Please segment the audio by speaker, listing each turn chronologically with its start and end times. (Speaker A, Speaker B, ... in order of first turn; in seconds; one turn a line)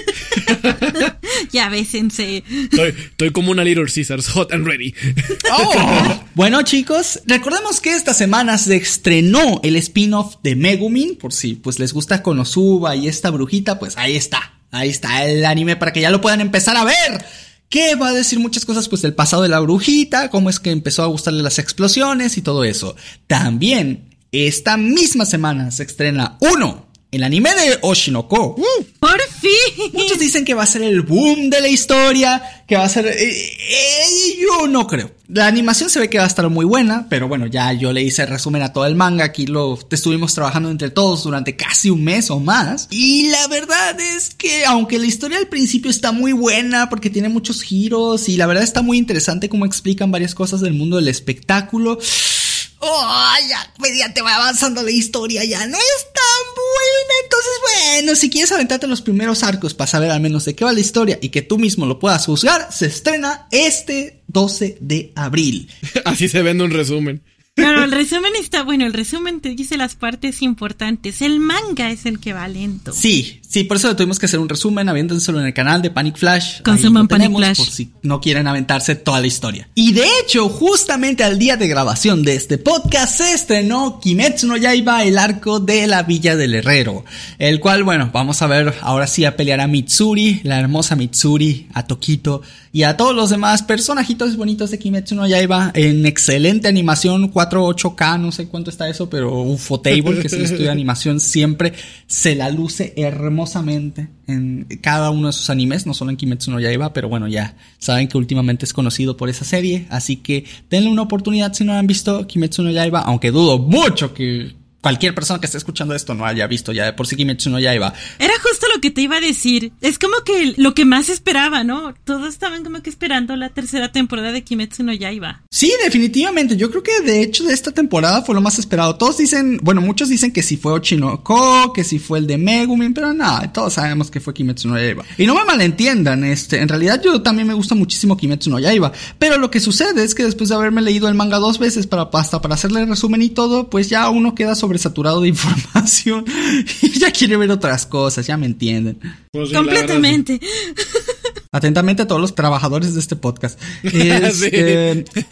Speaker A: 0.3-1.1
Speaker B: 0.4-2.8
Speaker A: 2.7-6.2
Speaker C: 5.5-28.9
Speaker B: 29.0-30.2
Speaker C: 29.9-65.7
Speaker A: 65.9-67.8
Speaker B: 67.6-73.0
Speaker C: 73.0-118.0
Speaker B: 76.6-77.7
Speaker B: 118.2-125.4
Speaker C: 125.5-149.0
Speaker A: 149.3-150.2
Speaker B: 149.5-151.1
Speaker C: 151.5-155.1
Speaker A: 153.9-154.9